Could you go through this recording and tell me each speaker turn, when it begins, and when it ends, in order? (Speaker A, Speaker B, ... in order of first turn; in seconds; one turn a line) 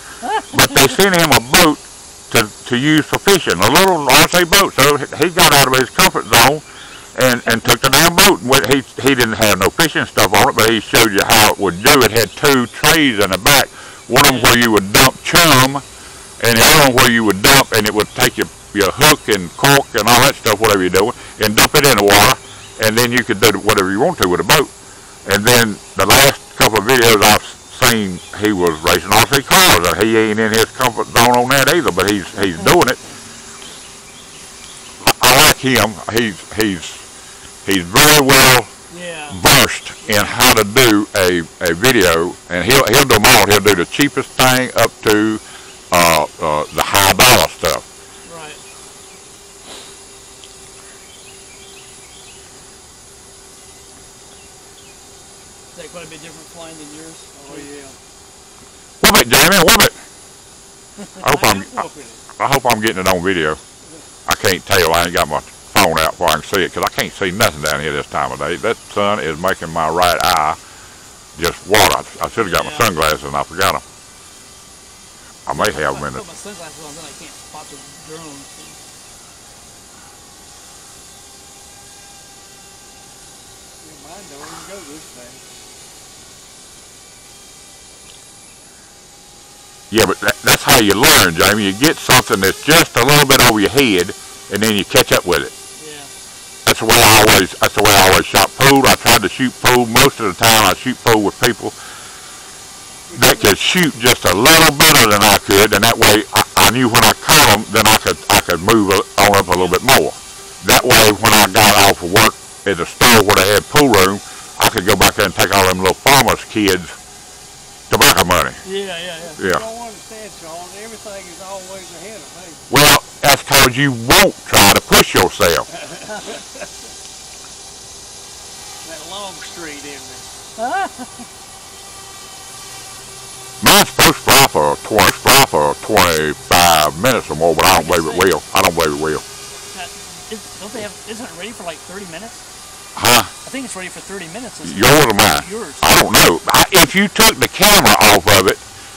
Speaker A: 0.2-0.8
Speaker B: 0.5-6.6
Speaker B: 7.2-15.8
Speaker A: 7.5-7.8
Speaker A: 14.2-14.5
Speaker B: 16.4-24.7
Speaker B: 25.2-33.0
Speaker B: 35.0-37.0
Speaker B: 37.6-38.7
Speaker A: 38.9-39.4
Speaker B: 39.3-47.9
Speaker A: 48.2-48.6
Speaker A: 55.8-57.7
Speaker C: 57.4-58.0
Speaker B: 59.0-60.0
Speaker B: 61.2-61.9
Speaker C: 61.2-62.2
Speaker B: 62.4-63.6
Speaker B: 64.3-70.6
Speaker B: 71.3-73.8
Speaker A: 72.5-72.9
Speaker B: 75.5-76.2
Speaker A: 75.5-78.8
Speaker C: 83.8-85.4
Speaker B: 89.9-95.5
Speaker A: 95.8-96.1
Speaker B: 96.7-101.8
Speaker C: 103.1-103.5
Speaker B: 103.1-117.0
Speaker B: 117.9-118.6
Speaker A: 118.6-119.4
Speaker B: 119.4-119.7
Speaker C: 119.4-122.6
Speaker B: 122.7-125.7
Speaker C: 125.8-126.4
Speaker C: 128.8-130.3
Speaker A: 130.6-131.3
Speaker B: 133.6-139.2
Speaker A: 137.7-138.3
Speaker A: 139.7-142.4
Speaker B: 143.0-143.3
Speaker A: 143.4-145.9
Speaker B: 144.6-148.6